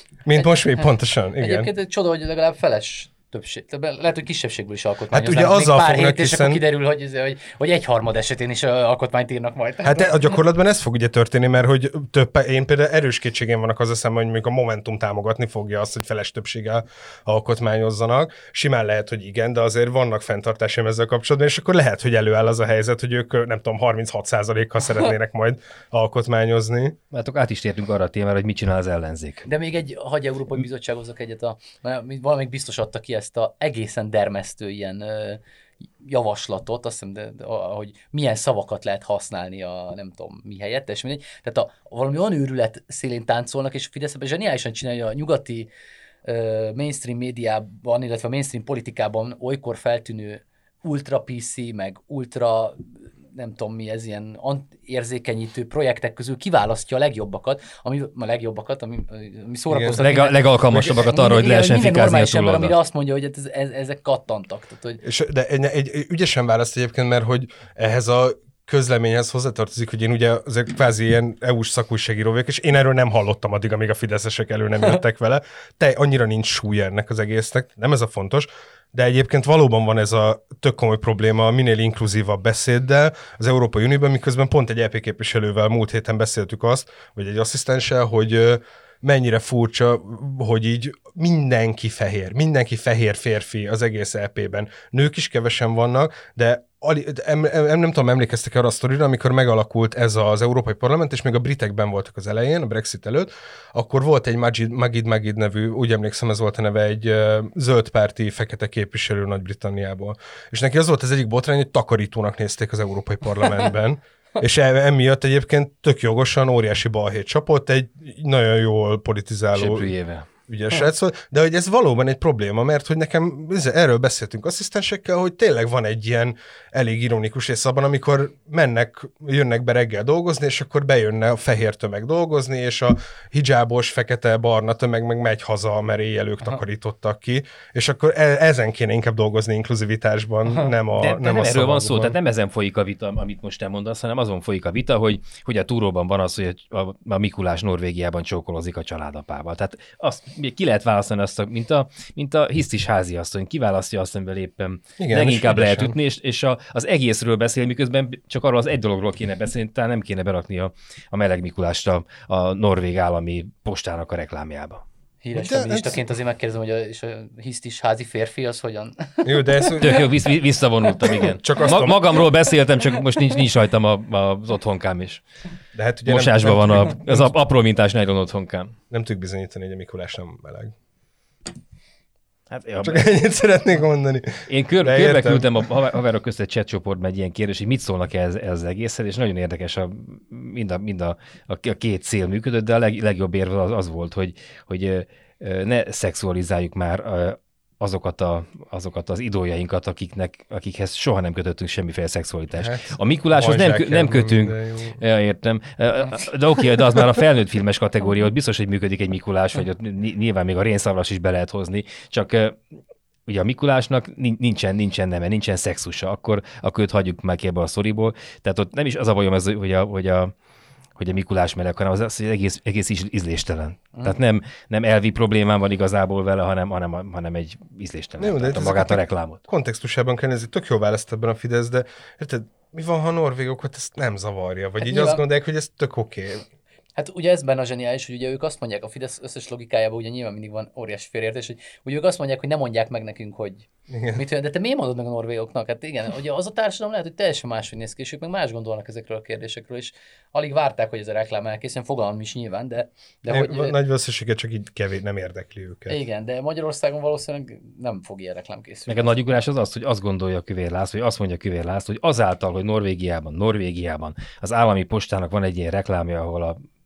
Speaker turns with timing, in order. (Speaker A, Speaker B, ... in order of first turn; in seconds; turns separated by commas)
Speaker A: 0.2-1.7, Speaker B: 1.4-10.3, Speaker A: 5.1-6.6, Speaker A: 9.8-27.0, Speaker C: 27.1-29.5, Speaker B: 29.5-35.4, Speaker B: 36.0-45.7, Speaker B: 46.2-65.0, Speaker A: 59.7-60.0, Speaker C: 60.0-62.8, Speaker A: 65.0-119.9, Speaker C: 119.5-120.3, Speaker A: 120.5-142.2, Speaker C: 140.9-164.8, Speaker A: 155.0-156.0, Speaker B: 165.2-169.8, Speaker A: 165.3-166.0, Speaker A: 169.2-170.1, Speaker C: 169.8-175.2, Speaker A: 171.0-172.2, Speaker A: 175.7-177.3, Speaker C: 176.1-178.7, Speaker A: 178.9-180.8, Speaker C: 182.5-183.1, Speaker A: 182.8-185.5, Speaker C: 184.5-212.6, Speaker A: 202.6-205.0, Speaker C: 213.3-220.3, Speaker C: 221.0-229.4, Speaker A: 228.2-236.4, Speaker B: 234.8-235.2, Speaker B: 237.0-253.8, Speaker A: 243.9-244.2, Speaker A: 253.3-256.0, Speaker B: 255.9-259.2, Speaker C: 258.9-266.6